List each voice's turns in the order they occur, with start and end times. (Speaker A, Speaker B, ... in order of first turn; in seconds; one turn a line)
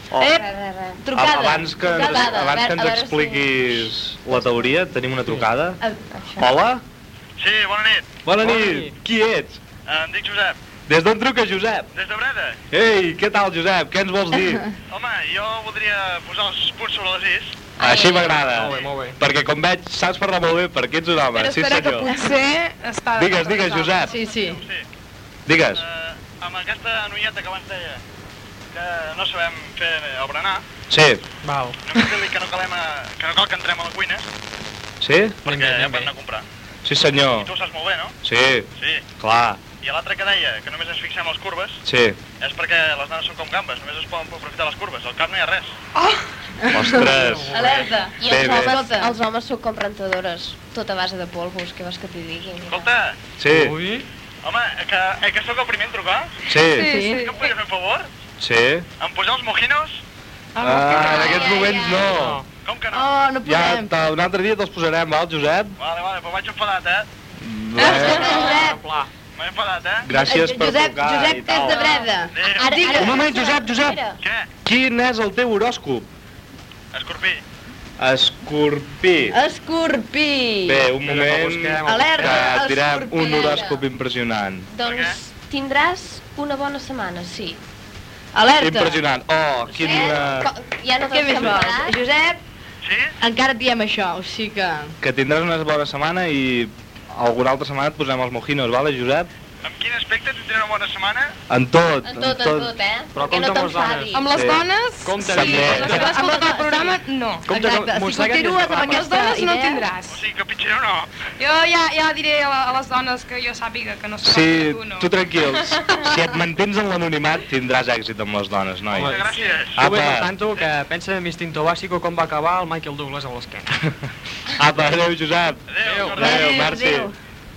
Speaker A: 0.1-0.4
Speaker B: 0.2-1.0
Speaker C: 1.0-2.6
Speaker A: 1.1-5.8
Speaker B: 1.8-4.5
Speaker B: 6.1-6.5
Speaker A: 6.4-6.8
Speaker D: 7.4-8.1
Speaker A: 8.2-9.6
Speaker E: 8.4-8.9
Speaker D: 9.9-10.6
Speaker A: 10.9-11.9
Speaker D: 11.9-12.6
Speaker A: 12.7-14.7
Speaker D: 14.9-17.6
Speaker B: 17.8-18.4
Speaker A: 17.8-22.1
Speaker E: 18.5-19.2
Speaker F: 21.3-24.3
Speaker A: 23.1-24.1
Speaker C: 24.1-24.6
Speaker D: 24.4-24.8
Speaker A: 25.5-25.8
Speaker D: 25.8-28.0
Speaker D: 28.7-30.6
Speaker A: 30.9-31.2
Speaker E: 31.4-31.8
Speaker D: 31.9-34.2
Speaker A: 35.0-35.4
Speaker E: 35.4-36.1
Speaker D: 35.5-36.4
Speaker A: 36.8-37.5
Speaker D: 37.4-38.1
Speaker A: 38.2-38.7
Speaker D: 38.8-39.0
Speaker A: 39.2-39.6
Speaker D: 39.8-41.8
Speaker A: 41.8-42.2
Speaker D: 42.4-45.7
Speaker C: 46.6-49.1
Speaker A: 46.7-47.5
Speaker E: 47.1-47.9
Speaker B: 48.2-52.9
Speaker A: 48.2-48.8
Speaker D: 52.7-53.1
Speaker A: 53.4-53.7
Speaker E: 53.5-54.1
Speaker D: 54.4-56.3
Speaker A: 56.5-56.9
Speaker F: 56.7-57.4
Speaker C: 56.8-57.3
Speaker D: 57.1-58.1
Speaker A: 58.4-58.9
Speaker D: 59.0-60.0
Speaker F: 60.5-61.5
Speaker A: 60.6-62.4
Speaker B: 60.9-62.0
Speaker E: 62.0-62.4
Speaker D: 62.6-63.1
Speaker C: 62.9-63.9
Speaker A: 63.4-65.8
Speaker D: 65.8-67.1
Speaker A: 67.4-68.5
Speaker C: 67.8-68.8
Speaker E: 68.2-69.1
Speaker D: 69.3-70.1
Speaker A: 70.0-71.9
Speaker C: 70.1-73.2
Speaker B: 71.5-74.2
Speaker D: 72.3-72.8
Speaker A: 72.9-74.0
Speaker D: 74.2-74.5
Speaker A: 74.6-76.1
Speaker D: 76.9-77.4
Speaker A: 78.0-79.4
Speaker C: 79.3-80.8
Speaker A: 80.6-84.7
Speaker E: 81.0-82.5
Speaker C: 81.8-83.6
Speaker B: 83.1-83.8
Speaker B: 84.7-87.6
Speaker D: 84.8-85.2
Speaker C: 88.3-89.0
Speaker A: 88.6-90.5
Speaker B: 89.7-92.0
Speaker C: 91.0-92.4
Speaker D: 92.8-93.1
Speaker C: 93.2-94.9
Speaker A: 95.0-99.3
Speaker D: 99.6-101.3
Speaker A: 101.5-102.7
Speaker B: 102.0-104.3
Speaker E: 103.1-104.2
Speaker F: 104.1-107.5
Speaker A: 104.3-104.7
Speaker E: 105.0-106.2
Speaker A: 105.2-106.0
Speaker C: 105.9-109.9
Speaker E: 107.5-109.1
Speaker F: 108.8-110.2
Speaker D: 110.1-111.1
Speaker F: 111.4-115.1
Speaker A: 114.2-119.1
Speaker F: 115.6-116.0
Speaker E: 118.9-123.8
Speaker D: 119.0-119.8
Speaker A: 119.8-120.3
Speaker A: 124.5-125.6
Speaker D: 125.7-126.5
Speaker E: 125.8-126.2
Speaker A: 126.1-127.1
Speaker C: 126.2-127.1